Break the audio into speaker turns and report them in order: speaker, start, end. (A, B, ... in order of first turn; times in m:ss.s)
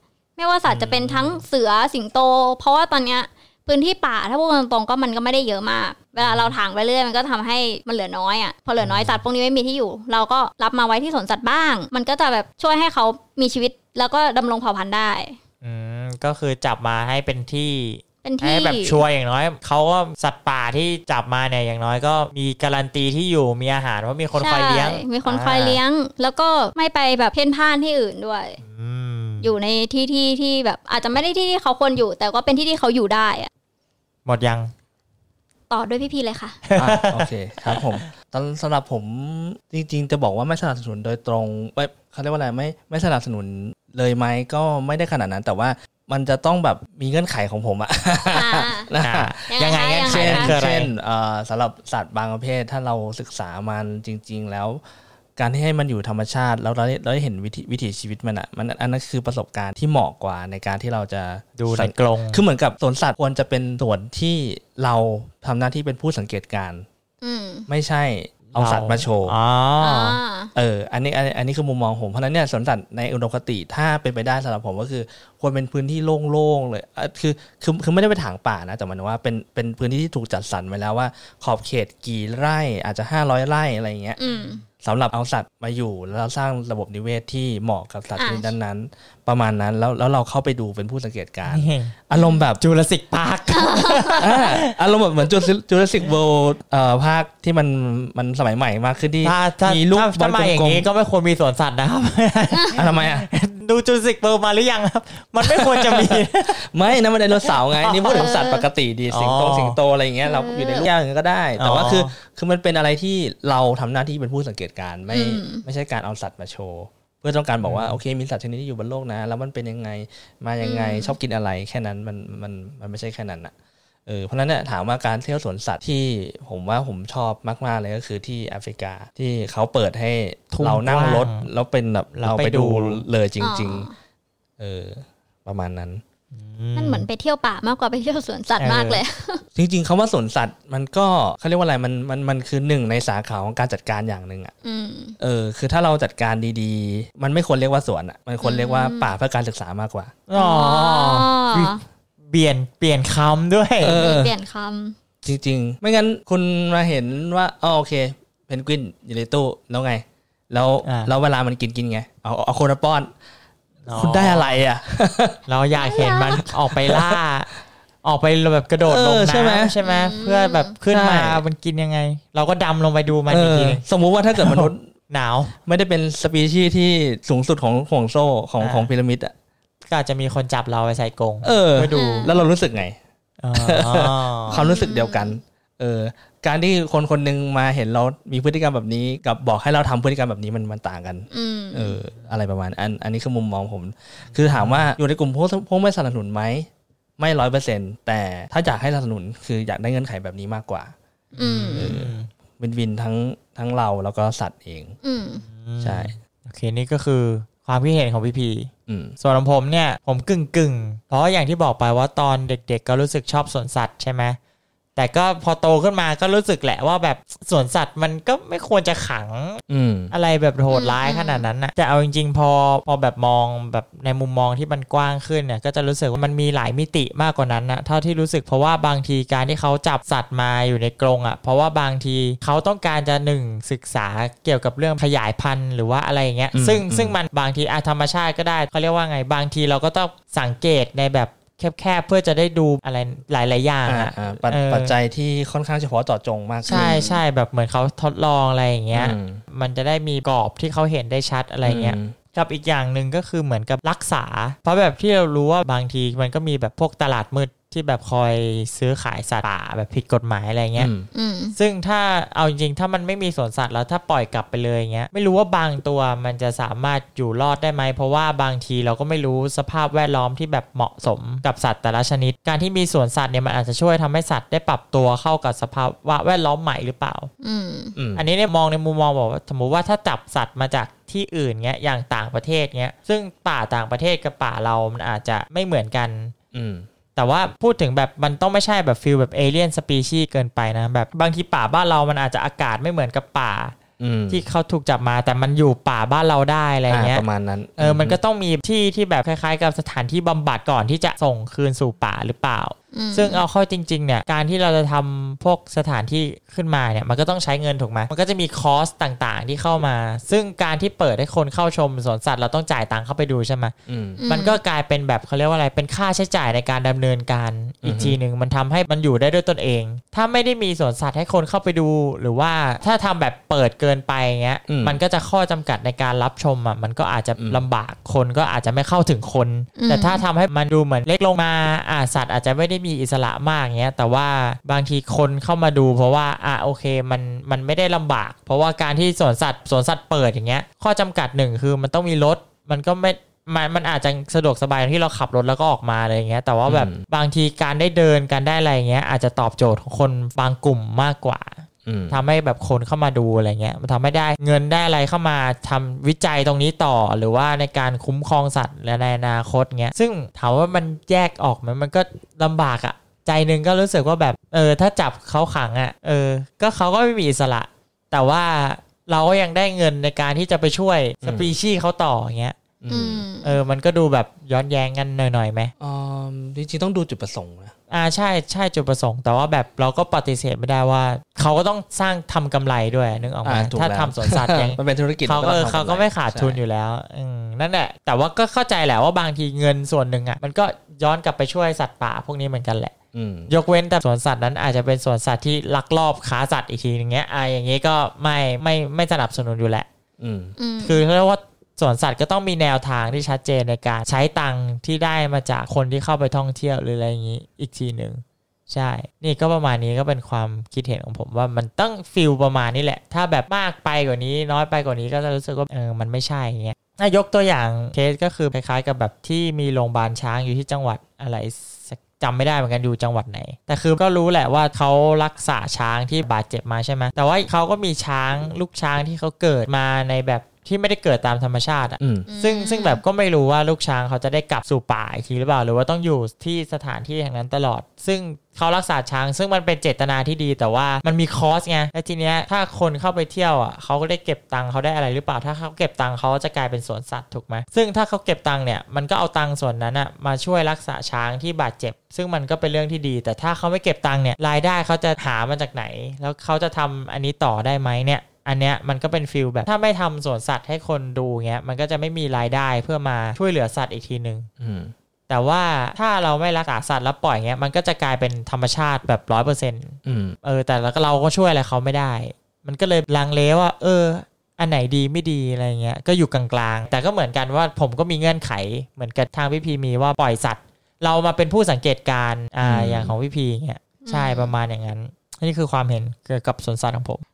0:00.4-0:15.4 A
0:00.7-0:01.4 B
0:06.2-0:06.6 B
0:08.8-0:09.2 B
0:15.6-0:25.8 B
0:18.2-0:19.0 A
0:24.4-0:28.6 A
0:28.6-0:29.5 B
0:29.4-0:33.5 A
0:34.3-0:34.7 B
0:35.7-0:36.6 A
0:36.7-0:38.1 B
0:36.8-0:49.4 C
0:48.3-0:48.9 A
0:49.0-0:50.9 B
0:49.5-0:50.5 A
0:50.0-0:54.8 C
0:55.4-1:06.9 C
1:01.6-1:02.4 B
1:07.2-1:07.7 A
1:07.7-1:09.4 C
1:08.5-1:10.2 B
1:09.8-1:10.5 A
1:10.6-1:24.2 C
1:24.2-1:24.6 A
1:24.8-1:32.6 C
1:28.2-1:28.5 A
1:31.5-1:31.9 B
1:32.1-1:32.4 A
1:32.6-1:34.8 B
1:33.5-1:34.3 A
1:34.2-1:40.9 C
1:39.2-1:46.6 B
1:42.5-1:42.8 A
1:42.8-1:43.3 C
1:45.4-2:03.5 C
1:47.4-1:48.2 B
1:48.0-1:48.7 A
1:49.1-1:49.8 B
1:50.2-1:50.9 A
1:51.6-1:52.1 B
1:55.1-1:55.6 A
1:57.6-1:58.0 B
2:00.6-2:01.2 A
2:04.1-2:13.9 C
2:10.5-2:11.5 B
2:12.2-2:13.0 B
2:13.4-2:13.9 A
2:14.6-2:16.0 C
2:16.3-2:17.1 B
2:16.8-2:19.4 A
2:18.6-2:19.0 B
2:19.6-2:24.5 C
2:24.6-2:25.2 A
2:25.2-2:30.2 C
2:28.4-2:29.1 A
2:30.3-2:34.0 B
2:30.4-2:31.8 A
2:33.8-2:34.4 C
2:33.9-2:35.0 A
2:35.2-2:43.1 C
2:40.8-2:41.1 B
2:43.8-2:44.6 B
2:44.0-2:45.4 C
2:45.5-2:47.5 B
2:45.8-2:46.4 A
2:46.7-2:47.2 C
2:48.0-2:53.8 B
2:48.8-2:49.8 C
2:49.8-2:50.7 A
2:50.9-2:51.4 C
2:53.3-2:54.8 C
2:54.4-2:55.5 B
2:55.6-2:59.3 C
2:58.6-2:58.9 B
2:59.9-3:02.4 B
3:01.4-3:03.0 C
3:01.9-3:02.4 A
3:03.4-3:04.6 B
3:03.6-3:20.9 C
3:04.5-3:05.4 A
3:11.3-3:12.0 A
3:14.4-3:14.9 B
3:21.3-3:22.3 B
3:21.4-3:21.9 A
3:21.7-3:25.0 C
3:25.0-3:25.4 A
3:25.5-3:34.4 B
3:25.8-3:26.2 C
3:28.9-3:29.2 C
3:35.0-4:04.9 B
3:39.7-3:40.1 C
3:40.7-3:41.5 A
3:56.5-3:57.2 C
4:03.9-4:07.0 C
4:06.7-4:07.2 A
4:06.7-4:20.9 B
4:08.9-4:09.4 C
4:11.6-4:12.2 C
4:20.8-4:21.1 C
4:21.1-4:21.6 A
4:21.6-4:37.3 B
4:37.4-4:38.0 A
4:38.0-4:38.2 C
4:38.2-4:46.3 B
4:46.5-4:46.9 C
4:47.2-4:53.8 B
4:54.0-4:54.4 C
4:54.3-4:57.2 B
4:56.9-4:58.2 C
4:57.8-5:13.7 B
5:02.9-5:03.4 A
5:13.9-5:14.2 C
5:14.2-5:14.6 A
5:14.3-6:12.6 B
5:17.8-5:18.2 C
5:24.7-5:25.0 C
5:27.4-5:27.6 C
5:29.8-5:30.2 A
5:46.7-5:47.0 C
5:51.8-5:52.2 C
6:11.2-6:11.5 C
6:12.8-6:13.2 C
6:12.9-6:13.6 A
6:13.4-6:15.7 B
6:15.8-6:17.7 C
6:17.9-6:32.9 B
6:23.4-6:26.6 C
6:33.1-6:33.5 C
6:33.5-6:39.9 B
6:40.2-6:40.6 C
6:40.6-6:41.0 A
6:40.8-7:44.5 B
7:12.0-7:12.3 C
7:12.3-7:13.0 A
7:44.6-7:44.9 C
7:45.3-8:07.2 B
7:50.0-7:50.4 C
8:02.6-8:03.1 C
8:04.0-8:04.5 A